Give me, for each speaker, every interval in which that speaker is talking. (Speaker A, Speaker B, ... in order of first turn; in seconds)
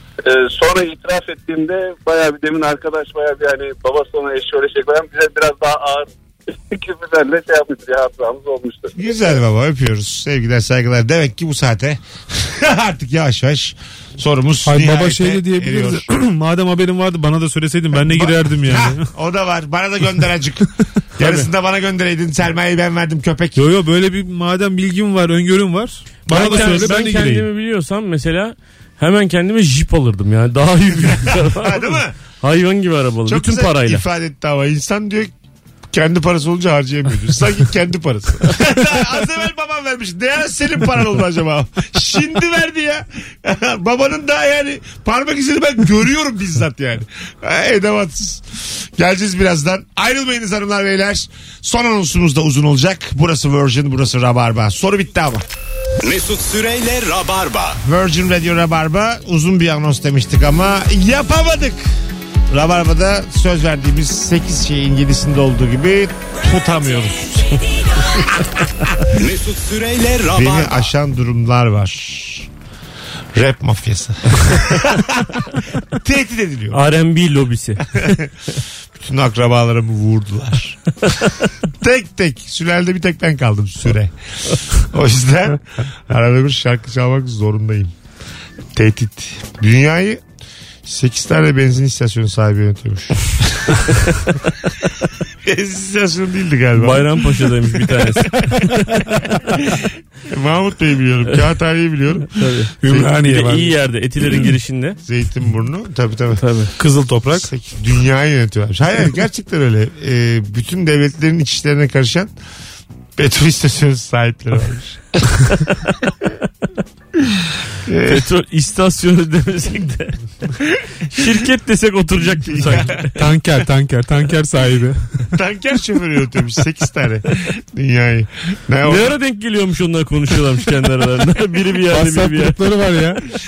Speaker A: 0.2-8.9
Speaker B: 8.9-16.1, 18.1-23.6, 26.3-27.1, 30.9-32.1, 33.3-35.3, 35.9-55.4, 57.8-61.9, 62.5-67.6, 68.1-69.1, 70.4-72.5, 73.3-76.8, 77.9-78.3, 79.0-81.0, 81.8-87.9, 88.8-90.2, 90.9-94.0, 95.4-103.1, 105.0-106.4, 107.3-112.3, 113.2-115.3, 117.2-118.2, 122.3-123.0, 125.3-129.2
Speaker C: 14.7-19.1, 23.6-27.5, 102.8-103.8, 106.8-107.5, 123.1-125.1, 131.9-133.2
Speaker D: 21.2-21.5, 26.3-34.0, 76.7-78.1, 96.8-99.2, 102.3-105.0, 106.3-106.7, 118.1-120.2, 121.1-123.2, 128.8-132.6
Speaker E: 56.0-57.8, 69.2-70.9